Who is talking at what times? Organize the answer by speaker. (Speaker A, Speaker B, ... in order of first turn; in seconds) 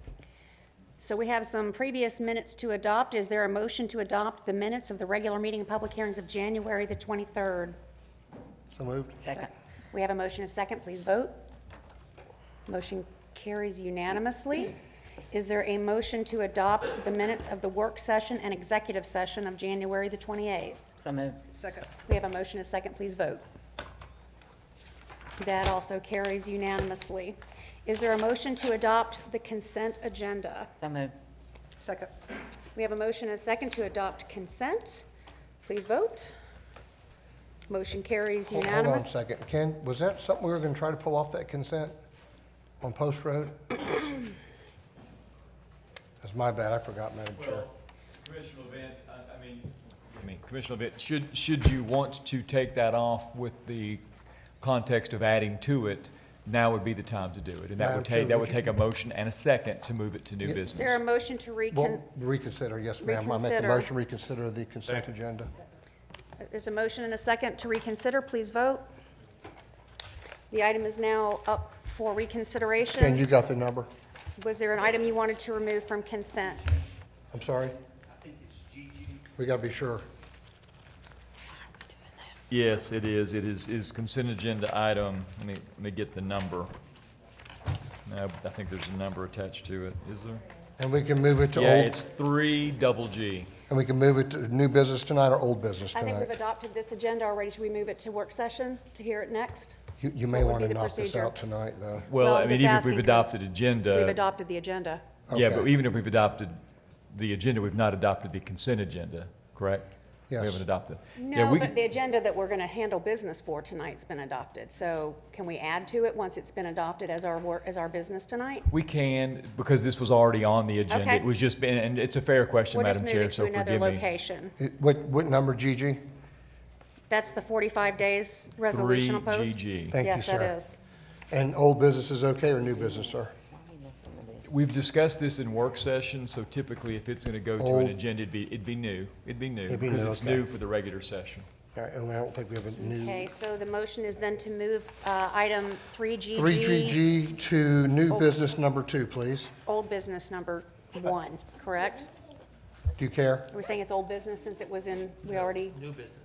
Speaker A: 1.0-7.8, 9.3-11.3, 12.7-14.8, 15.3-20.9, 21.9-23.4, 25.4-30.7, 32.7-35.0, 35.6-36.3, 37.7-39.2, 60.6-62.0, 63.0-63.9, 66.4-68.8, 70.5-73.2, 74.4-76.8, 95.9-99.8, 100.3-101.3, 102.2-103.4, 103.9-105.1, 111.2-118.7, 120.9-121.3, 122.7-124.5, 127.1-130.8, 142.8-147.0, 149.6-152.1, 153.5-155.8
Speaker B: 8.7-9.2, 38.5-42.0, 42.8-43.8, 46.2-47.7, 57.8-58.6, 60.4-60.7, 61.7-65.5, 73.0-73.9, 77.3-77.8, 79.3-80.0, 90.8-92.0, 93.7-96.3, 100.0-102.1, 105.3-105.7, 110.3-110.6, 124.6-126.0, 129.9-130.6, 131.3-133.3, 137.6-138.0, 139.7-140.4, 141.7-143.3, 146.3-149.5, 153.0-153.5
Speaker C: 21.0-21.5, 30.7-31.1, 132.6-134.6
Speaker D: 47.4-54.0, 54.6-61.0, 82.5-86.7, 88.0-90.4, 91.5-93.5, 102.1-104.2, 105.3-111.7, 118.7-124.0, 128.7-129.9, 134.4-141.5